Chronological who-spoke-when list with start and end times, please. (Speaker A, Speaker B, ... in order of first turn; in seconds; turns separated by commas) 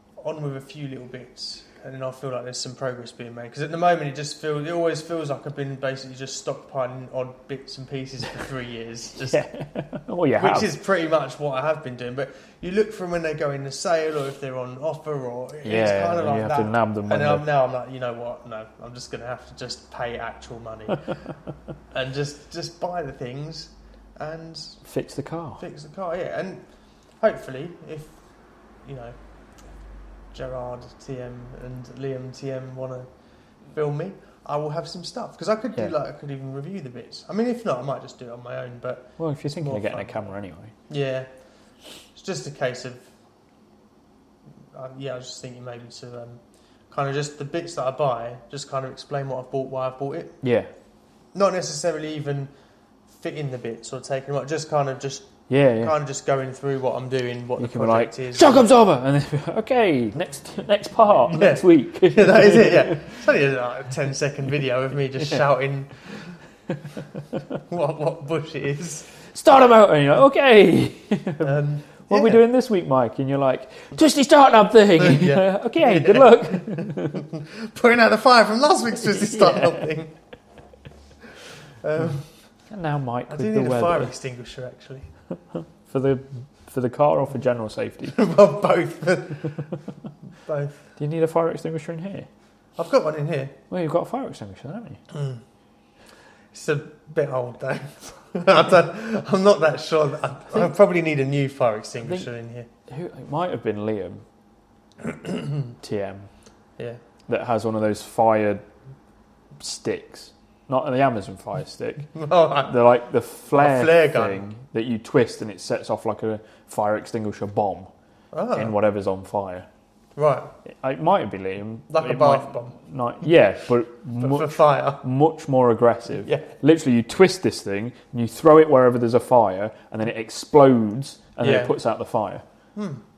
Speaker A: 0.2-9.4, Speaker B: 9.3-10.7, Speaker A: 10.4-21.0, Speaker B: 15.6-17.4, Speaker A: 21.9-24.8, Speaker B: 24.8-25.6, Speaker A: 25.6-26.6, Speaker A: 27.2-28.1, Speaker A: 28.8-29.1, Speaker A: 30.3-33.1, Speaker A: 33.7-40.2, Speaker B: 39.2-40.7, Speaker A: 40.9-41.3, Speaker A: 42.1-43.0, Speaker A: 44.7-50.4, Speaker B: 50.4-50.7, Speaker A: 51.3-52.5, Speaker A: 53.1-58.7, Speaker B: 55.5-55.9, Speaker B: 57.6-63.2, Speaker A: 61.3-66.3, Speaker B: 66.7-67.4, Speaker A: 67.7-69.1, Speaker B: 69.2-77.3, Speaker A: 71.4-72.4, Speaker A: 75.0-80.1, Speaker B: 79.1-79.9, Speaker A: 81.8-82.3, Speaker B: 82.7-84.1, Speaker A: 83.3-85.1, Speaker B: 85.5-88.2, Speaker A: 88.1-89.6, Speaker A: 90.5-90.8, Speaker B: 91.0-92.3, Speaker A: 92.8-93.5, Speaker B: 93.7-95.0, Speaker A: 95.1-95.4, Speaker A: 96.5-102.7, Speaker B: 102.9-104.2, Speaker A: 105.0-105.7, Speaker B: 105.8-106.3, Speaker B: 107.3-108.6, Speaker B: 109.6-117.9, Speaker A: 112.1-112.8, Speaker A: 113.5-114.4, Speaker A: 118.3-118.8, Speaker B: 118.5-119.7, Speaker A: 120.2-120.5, Speaker B: 120.7-132.4, Speaker A: 121.9-122.8, Speaker A: 124.2-125.0, Speaker A: 131.4-131.7, Speaker A: 132.8-133.0